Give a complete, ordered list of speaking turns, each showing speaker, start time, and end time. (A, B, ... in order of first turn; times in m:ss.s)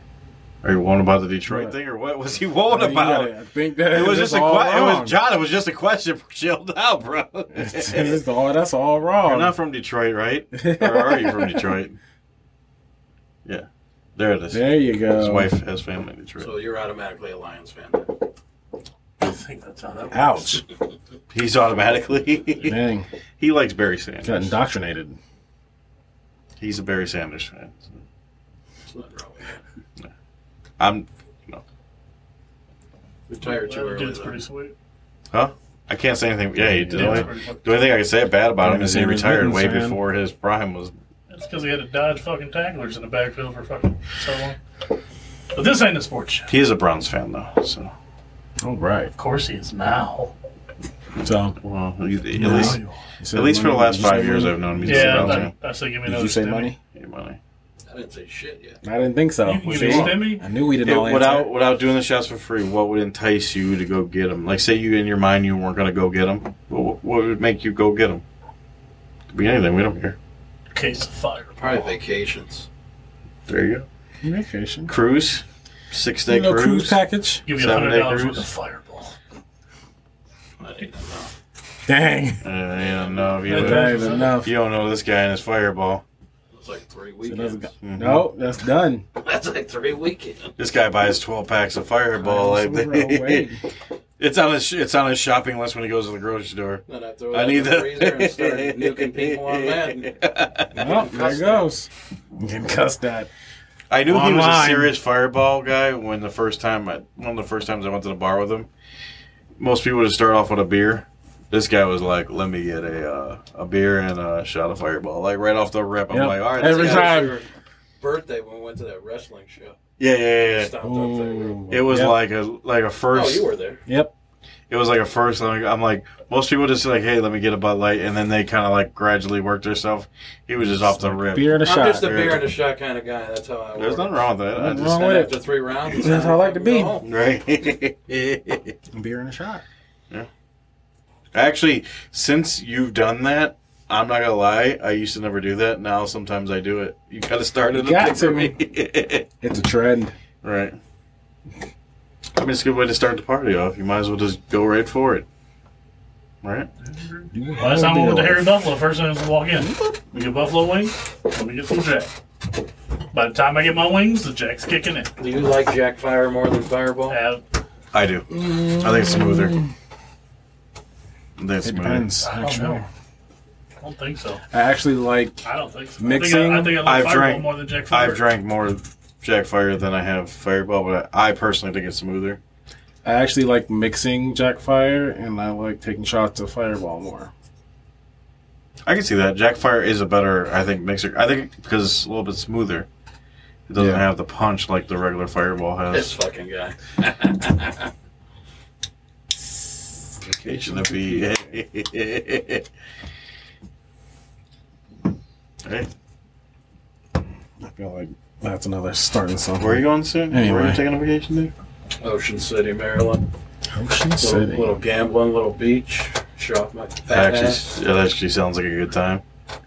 0:00.6-0:03.3 A
0:01.5-0:01.8 B
0:02.7-0:05.2 B
0:03.9-0:08.2 A
0:07.5-0:09.6 B
0:09.2-0:12.0 A
0:10.5-0:11.7 B
0:13.4-0:16.5 A
0:14.5-0:15.5 B
0:16.4-0:18.2 C
0:19.2-0:20.6 D
0:20.1-0:20.6 B
0:21.3-0:22.8 A
0:22.6-0:23.1 B
0:23.4-0:24.5 A
0:24.2-0:25.2 B
0:26.6-0:28.0 A
0:28.9-0:29.6 C
0:30.8-0:31.6 A
0:33.3-0:34.4 C
0:33.4-0:34.7 D
0:35.3-0:40.9 A
0:36.8-0:37.3 B
0:36.9-0:37.7 D
0:38.6-0:40.0 B
0:41.3-0:44.6 D
0:45.5-0:46.5 D
0:46.5-0:47.9 A
0:48.6-0:49.1 B
0:49.2-0:50.3 D
0:51.2-0:51.6 B
0:51.6-0:52.8 A
0:52.3-0:55.5 B
0:52.4-0:53.0 D
0:53.3-0:55.5 A
0:54.9-0:56.7 D
0:56.0-0:56.8 B
0:56.9-0:57.4 A
0:57.9-0:58.8 C
0:58.8-1:01.5 B
0:59.4-1:00.4 D
0:59.8-1:00.1 A
1:00.8-1:08.2 A
1:09.3-1:10.2 A
1:10.7-1:11.9 D
1:11.6-1:12.7 C
1:13.5-1:13.9 A
1:14.2-1:14.9 B
1:14.9-1:17.0 A
1:16.2-1:17.4 B
1:17.5-1:19.1 D
1:17.5-1:18.4 A
1:20.6-1:21.3 C
1:21.8-1:22.4 B
1:22.4-1:26.0 A
1:22.8-1:23.5 C
1:23.5-1:24.4 D
1:23.5-1:24.5 B
1:26.5-1:27.8 C
1:27.2-1:29.0 B
1:27.8-1:28.3 A
1:29.2-1:30.6 C
1:30.6-1:33.5 A
1:32.2-1:33.6 B
1:34.2-1:40.9 A
1:36.9-1:40.1 C
1:40.7-1:41.7 C
1:40.7-1:43.3 B
1:43.9-1:48.7 A
1:44.0-1:44.9 B
1:49.6-1:57.3 A
1:56.1-1:57.4 B
1:56.6-1:57.5 C
1:58.0-1:59.8 C
2:00.0-2:00.7 A
2:00.5-2:01.7 C
2:00.8-2:02.2 B
2:01.7-2:03.5 A
2:03.1-2:03.8 C
2:03.9-2:04.1 B
2:04.7-2:12.5 A
2:10.8-2:12.4 B
2:11.6-2:14.2 C
2:13.8-2:15.0 A
2:14.6-2:17.0 B
2:14.7-2:17.1 C
2:17.0-2:18.8 A
2:18.9-2:19.6 B
2:21.3-2:29.3 A
2:27.7-2:28.6 B
2:29.4-2:30.2 B
2:30.4-2:30.8 A
2:32.4-2:35.3 A
2:36.4-2:36.7 A
2:36.9-2:42.1 D
2:37.3-2:38.5 B
2:39.6-2:40.0 B
2:43.1-2:45.1 D
2:45.2-2:47.2 C
2:47.1-2:47.4 D
2:47.9-2:49.6 A
2:48.3-2:49.7 B
2:51.4-2:52.1 A
2:51.6-2:52.9 B
2:52.2-2:52.8 D
2:53.8-2:54.4 D
2:54.5-2:55.4 B
2:55.4-2:58.2 D
2:56.0-2:56.8 B
2:56.8-3:02.4 A
3:03.0-3:07.3 B
3:08.9-3:12.9 A
3:13.7-3:16.1 A
3:13.8-3:14.1 B
3:15.9-3:17.9 C
3:20.2-3:21.3 B
3:20.4-3:22.7 A
3:25.6-3:25.9 A
3:27.6-3:30.8 B
3:29.6-3:31.5 A
3:32.0-3:33.3 C
3:33.7-3:34.7 B
3:34.2-3:37.6 C
3:37.1-3:39.2 A